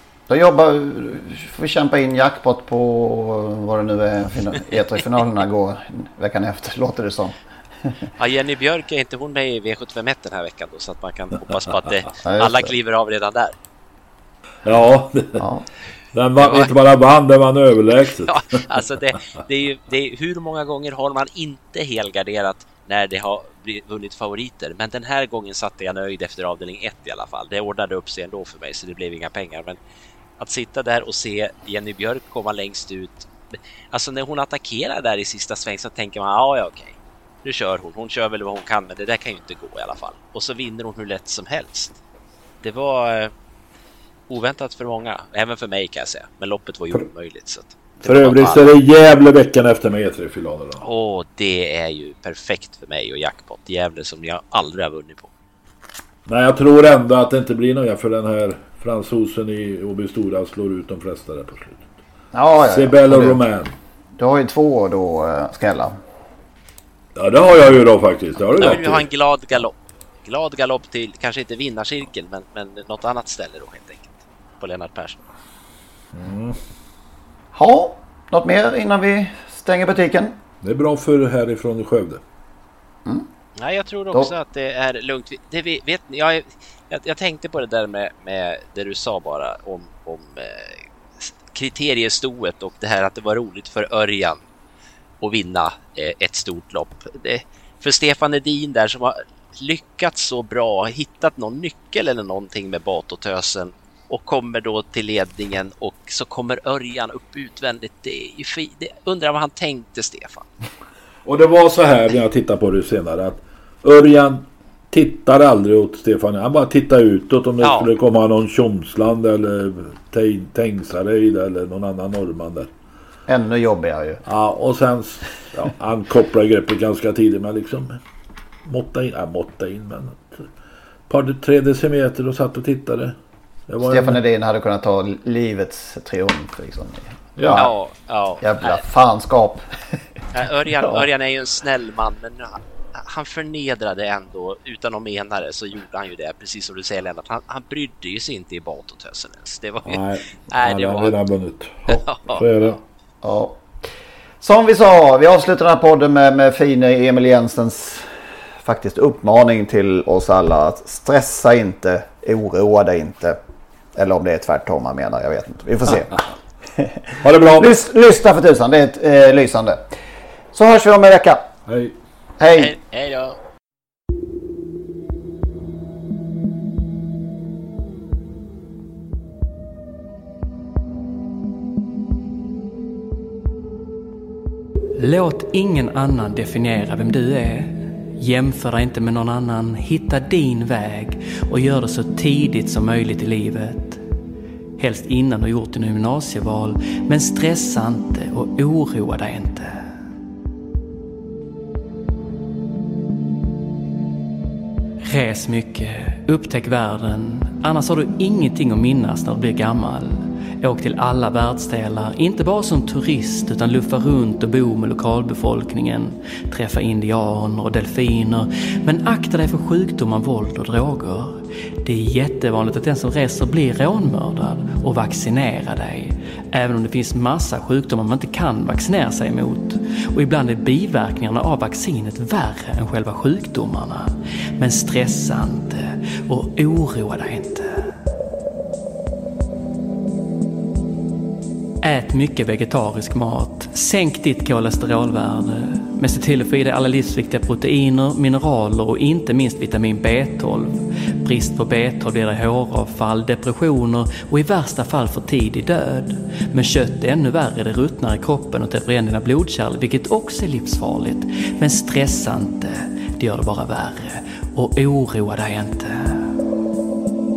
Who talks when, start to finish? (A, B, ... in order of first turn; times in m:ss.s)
0:00.3-0:07.9 A
0:08.2-0:13.5 B
0:12.2-0:12.7 A
0:14.6-0:15.4 C
0:15.4-0:15.6 A
0:16.1-0:18.4 C
0:16.4-0:16.7 B
0:18.2-0:29.8 B
0:30.4-0:33.3 B
0:33.9-0:42.0 B
0:42.6-0:43.3 B
0:44.3-0:48.7 B
0:48.0-0:50.8 C
0:50.8-0:55.3 B
0:56.2-1:01.8 C
1:02.3-1:03.4 A
1:02.6-1:03.7 C
1:04.2-1:06.0 A
1:07.1-1:09.1 C
1:08.6-1:15.2 B
1:16.1-1:16.6 C
1:17.5-1:20.4 A
1:20.6-1:22.2 C
1:23.6-1:30.8 B
1:31.5-1:34.4 B
1:35.2-1:50.5 B
1:51.2-2:02.7 C
1:57.6-1:57.9 B
2:03.3-2:04.2 A
2:04.2-2:08.0 C
2:08.7-2:10.4 C
2:11.1-2:13.2 C
2:13.7-2:14.2 C
2:13.8-2:17.7 A
2:17.4-2:17.7 C
2:17.6-2:18.8 B
2:18.4-2:19.8 A
2:20.3-2:31.2 B
2:20.8-2:21.0 A
2:29.8-2:32.8 C
2:31.9-2:32.8 B
2:33.2-2:33.6 A
2:34.4-2:38.1 A
2:38.6-2:43.4 A
2:43.9-2:46.2 A
2:46.8-2:49.8 A
2:47.2-2:47.8 C
2:50.5-2:51.5 A
2:51.7-2:51.9 C
2:52.4-2:52.8 A
2:52.6-2:53.4 B
3:05.0-3:14.0 D
3:14.8-3:19.9 D
3:25.0-3:57.9 D
4:01.8-4:26.4 D